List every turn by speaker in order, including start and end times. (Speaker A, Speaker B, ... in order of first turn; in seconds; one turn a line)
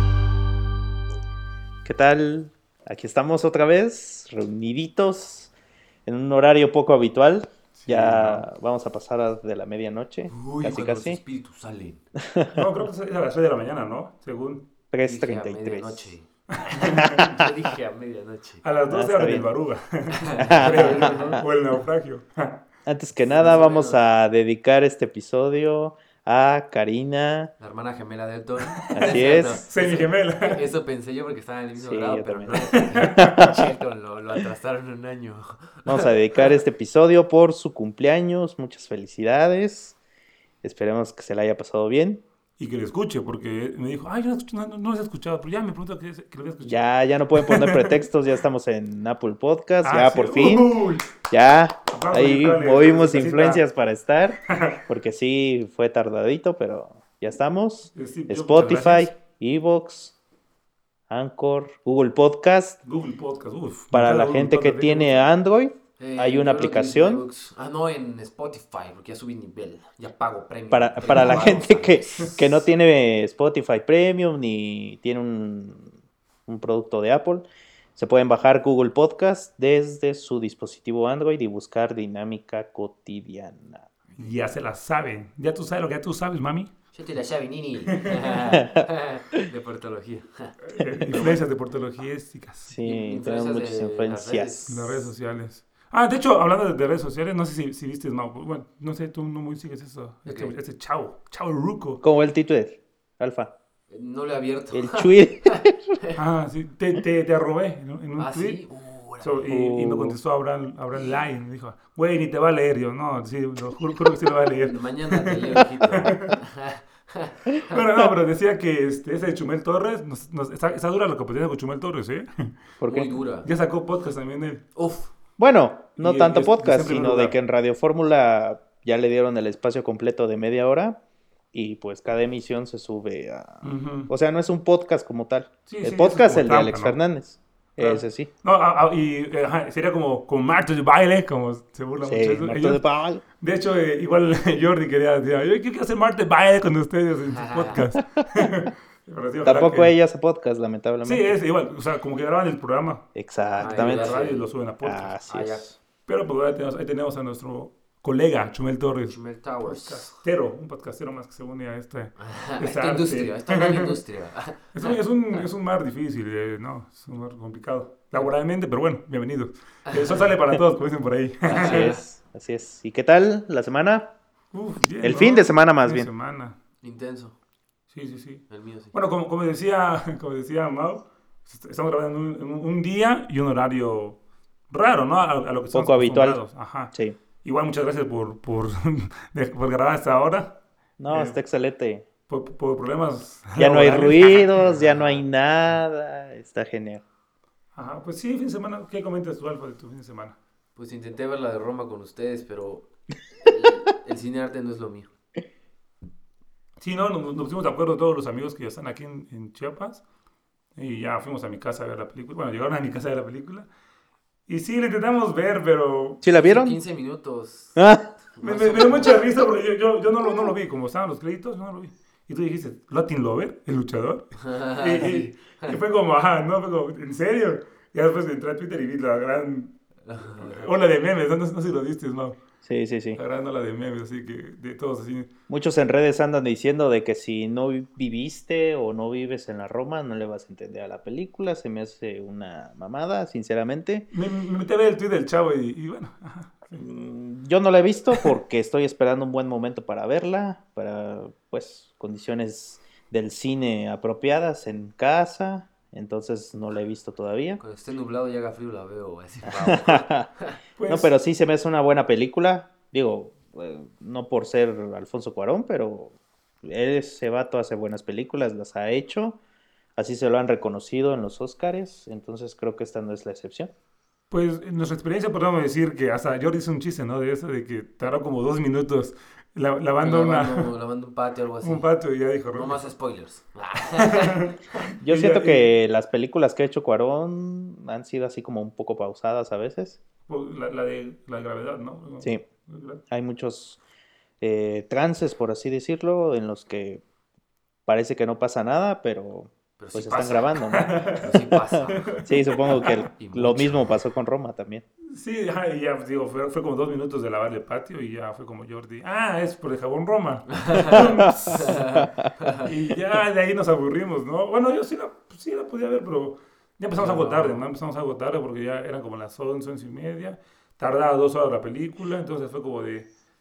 Speaker A: 1.8-5.5
Speaker A: 6.0-11.2
Speaker B: 7.7-8.4
Speaker C: 10.3-12.0
Speaker A: 12.2-12.6
Speaker B: 12.5-14.7
Speaker A: 14.9-16.1
Speaker C: 15.1-18.6
Speaker B: 16.5-17.3
Speaker A: 17.0-17.5
Speaker B: 18.6-22.6
Speaker A: 18.9-19.5
Speaker C: 20.1-21.4
Speaker A: 20.4-21.4
Speaker A: 22.9-27.5
Speaker C: 23.4-24.0
Speaker C: 27.6-36.5
Speaker B: 28.8-30.6
Speaker A: 28.9-29.6
Speaker A: 31.8-33.6
Speaker B: 32.7-33.5
Speaker A: 35.9-40.0
Speaker A: 40.6-42.2
Speaker B: 42.6-46.8
Speaker A: 46.6-50.8
Speaker B: 47.3-48.0
Speaker B: 49.8-51.1
Speaker A: 51.3-60.1
Speaker B: 51.9-53.6
Speaker B: 54.5-54.8
Speaker B: 57.9-59.1
Speaker A: 61.1-62.8
Speaker B: 62.8-65.2
Speaker A: 63.9-67.2
Speaker C: 66.0-72.5
Speaker A: 70.7-75.9
Speaker A: 76.5-83.9
Speaker B: 84.2-86.7
Speaker C: 86.9-90.5
Speaker B: 87.9-88.3
Speaker A: 88.5-88.8
Speaker B: 90.6-92.7
Speaker A: 90.8-91.4
Speaker A: 92.7-95.0
Speaker C: 92.8-94.7
Speaker B: 94.7-102.0
Speaker C: 100.2-100.5
Speaker A: 102.0-103.5
Speaker C: 103.9-106.2
Speaker A: 104.7-105.9
Speaker B: 106.2-108.6
Speaker C: 108.2-109.5
Speaker B: 109.2-115.4
Speaker A: 109.5-110.2
Speaker C: 114.6-117.7
Speaker B: 116.0-116.3
Speaker B: 117.7-122.5
Speaker A: 122.8-123.1
Speaker C: 122.8-123.5
Speaker B: 123.4-124.6
Speaker C: 124.7-125.1
Speaker A: 125.4-131.0
Speaker B: 126.0-127.4
Speaker A: 131.5-138.3
Speaker B: 133.6-134.1
Speaker B: 135.7-137.0
Speaker B: 137.8-142.8
Speaker A: 142.0-143.2
Speaker B: 143.4-149.9
Speaker C: 147.3-147.8
Speaker A: 149.4-151.4
Speaker B: 151.0-153.1
Speaker A: 153.1-154.2
Speaker B: 153.6-155.2
Speaker C: 153.6-154.5
Speaker A: 154.8-155.8
Speaker C: 155.2-155.7
Speaker B: 156.1-164.0
Speaker C: 159.1-160.2
Speaker C: 162.2-165.0
Speaker B: 164.7-171.9
Speaker C: 169.9-170.3
Speaker A: 171.5-174.1
Speaker C: 171.5-171.8
Speaker B: 174.5-176.5
Speaker A: 175.0-176.1
Speaker C: 176.8-177.4
Speaker B: 177.9-184.2
Speaker C: 178.5-178.9
Speaker B: 184.7-191.4
Speaker A: 185.7-186.4
Speaker A: 186.9-187.2
Speaker A: 191.0-192.1
Speaker B: 192.3-194.6
Speaker A: 193.6-197.0
Speaker C: 194.5-195.2
Speaker B: 197.7-200.3
Speaker C: 200.8-202.9
Speaker C: 203.4-205.1
Speaker B: 206.8-210.0
Speaker B: 210.8-213.7
Speaker B: 214.5-216.2
Speaker A: 216.2-216.8
Speaker C: 216.3-219.2
Speaker A: 217.8-218.1
Speaker B: 218.4-229.7
Speaker C: 224.4-225.8
Speaker C: 230.0-230.7
Speaker B: 230.3-232.3
Speaker A: 232.6-233.2
Speaker B: 233.1-235.3
Speaker A: 235.5-244.1
Speaker B: 244.1-246.8
Speaker A: 246.7-257.6
Speaker C: 257.6-260.6
Speaker A: 259.5-260.3
Speaker B: 260.8-261.1
Speaker A: 260.9-269.4
Speaker A: 269.9-273.7
Speaker B: 274.3-280.7
Speaker C: 280.0-281.9
Speaker B: 281.6-282.8
Speaker C: 282.5-284.5
Speaker B: 284.0-285.7
Speaker A: 285.0-290.0
Speaker B: 290.3-293.0
Speaker A: 293.1-293.8
Speaker A: 294.4-297.0
Speaker A: 297.9-301.2
Speaker C: 299.8-300.6
Speaker B: 300.7-301.3
Speaker C: 301.1-302.2
Speaker B: 302.1-303.0
Speaker A: 302.2-304.8
Speaker C: 303.1-303.9
Speaker B: 305.1-311.8
Speaker C: 310.5-312.6
Speaker A: 310.9-312.3
Speaker B: 312.6-323.1
Speaker C: 317.0-317.6